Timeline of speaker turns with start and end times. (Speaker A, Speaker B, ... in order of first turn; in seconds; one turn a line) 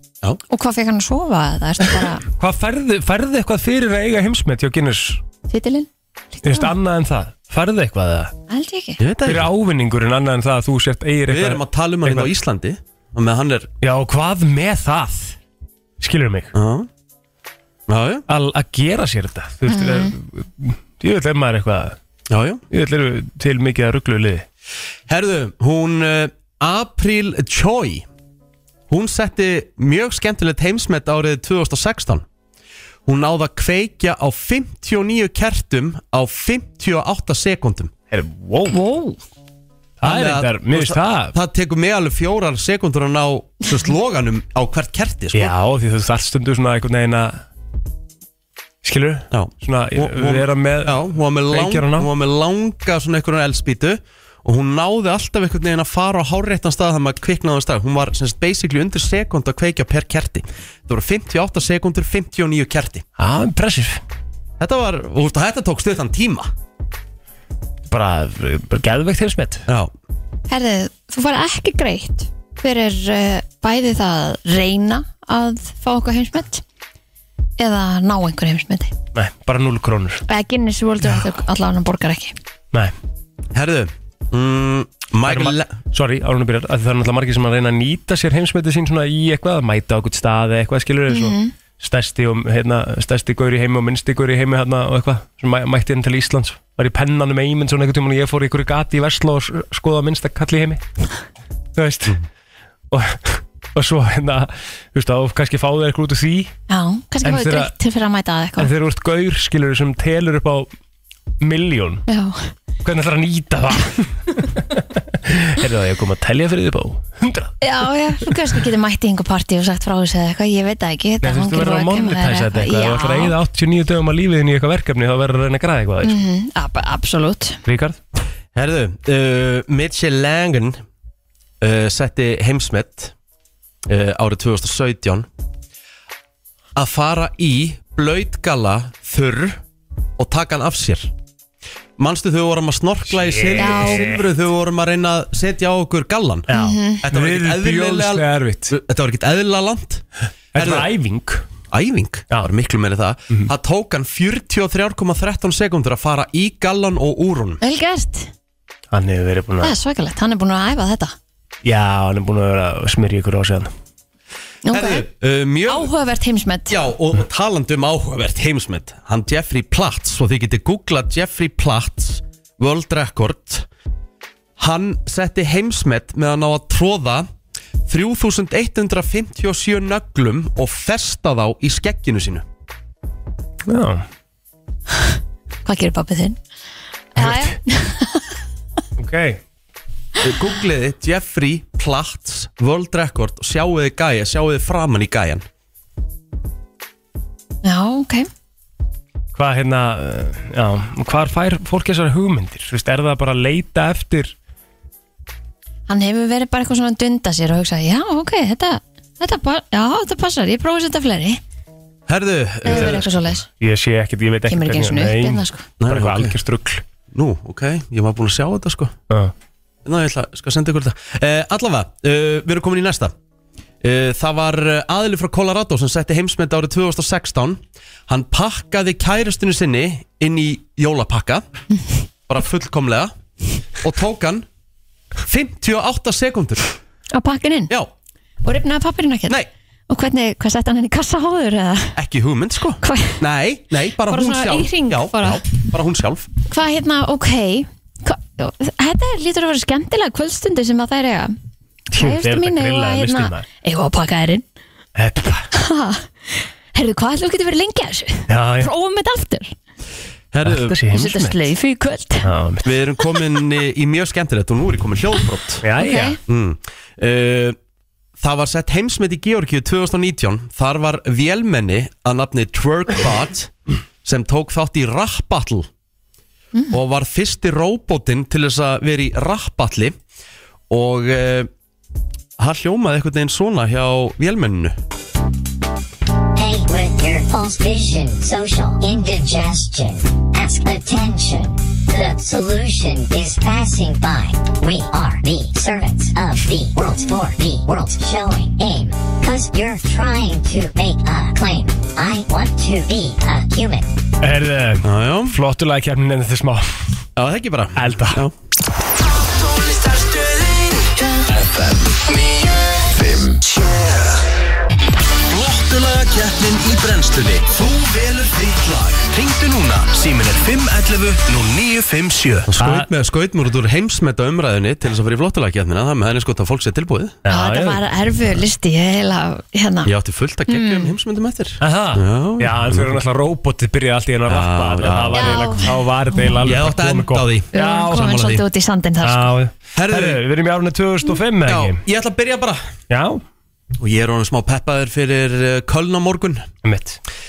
Speaker A: 0.5-2.2
Speaker B: 2.4-5.2
Speaker A: 5.5-6.7
Speaker B: 6.4-8.3
Speaker A: 8.5-9.0
Speaker C: 9.0-9.5
Speaker B: 9.2-12.3
Speaker C: 11.3-13.7
Speaker B: 13.8-15.4
Speaker B: 16.0-16.5
Speaker C: 16.5-16.9
Speaker C: 17.9-18.2
Speaker B: 18.3-22.0
Speaker A: 19.7-20.1
Speaker C: 22.3-22.6
Speaker B: 22.7-24.4
Speaker C: 25.1-28.0
Speaker C: 28.9-32.2
Speaker C: 33.0-37.9
Speaker B: 38.1-38.8
Speaker A: 38.7-39.2
Speaker B: 40.0-41.3
Speaker C: 40.0-45.5
Speaker B: 45.3-47.4
Speaker B: 48.8-52.1
Speaker C: 49.3-63.0
Speaker B: 63.2-64.0
Speaker C: 64.6-66.5
Speaker B: 67.9-69.7
Speaker A: 70.5-76.6
Speaker A: 77.6-78.9
Speaker B: 79.1-80.2
Speaker A: 80.3-82.3
Speaker C: 83.5-85.7
Speaker B: 85.2-100.8
Speaker A: 91.1-91.5
Speaker B: 101.7-102.2
Speaker B: 102.9-106.5
Speaker A: 106.7-108.7
Speaker B: 107.2-107.7
Speaker B: 108.6-110.7
Speaker B: 111.4-112.0
Speaker A: 112.1-112.5
Speaker B: 112.8-117.5
Speaker A: 117.6-123.3
Speaker B: 121.2-126.2
Speaker A: 126.0-127.6
Speaker B: 127.6-128.0
Speaker C: 128.5-130.8
Speaker C: 131.6-133.1
Speaker C: 133.9-135.3
Speaker C: 136.8-139.6
Speaker C: 140.2-141.1
Speaker C: 142.0-146.5
Speaker B: 143.1-144.2
Speaker A: 143.6-144.1
Speaker B: 146.5-148.7
Speaker A: 146.5-147.0
Speaker C: 147.0-150.0
Speaker B: 150.5-151.4
Speaker C: 150.6-150.9
Speaker C: 151.7-157.6
Speaker A: 157.6-158.3
Speaker B: 158.9-159.7
Speaker A: 159.6-161.1
Speaker B: 161.6-163.7
Speaker A: 164.7-165.0
Speaker C: 164.7-165.9
Speaker A: 165.7-166.7
Speaker C: 166.7-173.7
Speaker C: 174.6-177.3
Speaker C: 177.9-182.4
Speaker B: 183.7-184.1
Speaker A: 185.6-186.4
Speaker A: 187.1-188.2
Speaker B: 187.2-187.5
Speaker B: 189.0-189.4
Speaker C: 190.2-195.4
Speaker A: 197.6-198.3
Speaker B: 199.3-204.3
Speaker A: 205.9-211.4
Speaker C: 212.1-213.1
Speaker A: 212.6-213.4
Speaker B: 212.7-213.0
Speaker B: 213.6-216.8
Speaker A: 214.5-215.6
Speaker C: 215.8-216.4
Speaker C: 217.1-218.9
Speaker C: 219.8-223.1
Speaker C: 223.8-231.4
Speaker C: 232.3-233.1
Speaker C: 233.8-234.4
Speaker C: 235.2-236.7
Speaker A: 237.1-237.7
Speaker A: 238.4-239.4
Speaker A: 239.9-241.9
Speaker C: 241.9-246.3
Speaker A: 242.8-243.2
Speaker A: 244.1-245.4
Speaker A: 246.5-251.3
Speaker B: 251.9-253.4
Speaker A: 251.9-254.4
Speaker B: 254.9-255.5
Speaker A: 255.5-259.5
Speaker B: 258.3-258.7
Speaker C: 260.3-260.8
Speaker B: 260.4-261.4
Speaker A: 260.9-262.3
Speaker B: 262.2-262.7
Speaker C: 262.6-265.6
Speaker B: 265.6-266.2
Speaker A: 265.8-266.2
Speaker C: 266.3-267.6
Speaker C: 268.2-273.5
Speaker C: 274.0-275.7
Speaker C: 276.7-279.9
Speaker C: 280.7-281.5
Speaker C: 282.4-284.7
Speaker D: 286.3-303.9
Speaker B: 304.2-306.8
Speaker C: 304.8-305.3
Speaker C: 307.1-308.3
Speaker B: 307.8-308.2
Speaker E: 309.0-314.2
Speaker C: 315.3-319.1
Speaker B: 319.9-322.9
Speaker C: 322.4-327.2
Speaker B: 327.2-327.8
Speaker A: 327.3-329.9
Speaker C: 329.8-333.0
Speaker A: 330.5-330.9
Speaker B: 331.6-338.1
Speaker C: 334.3-335.5
Speaker A: 335.1-335.7
Speaker C: 336.4-338.4
Speaker A: 337.5-339.3
Speaker B: 339.0-341.8
Speaker C: 339.7-340.2
Speaker C: 341.4-342.6
Speaker B: 342.9-343.2
Speaker C: 343.8-346.5
Speaker B: 346.6-347.0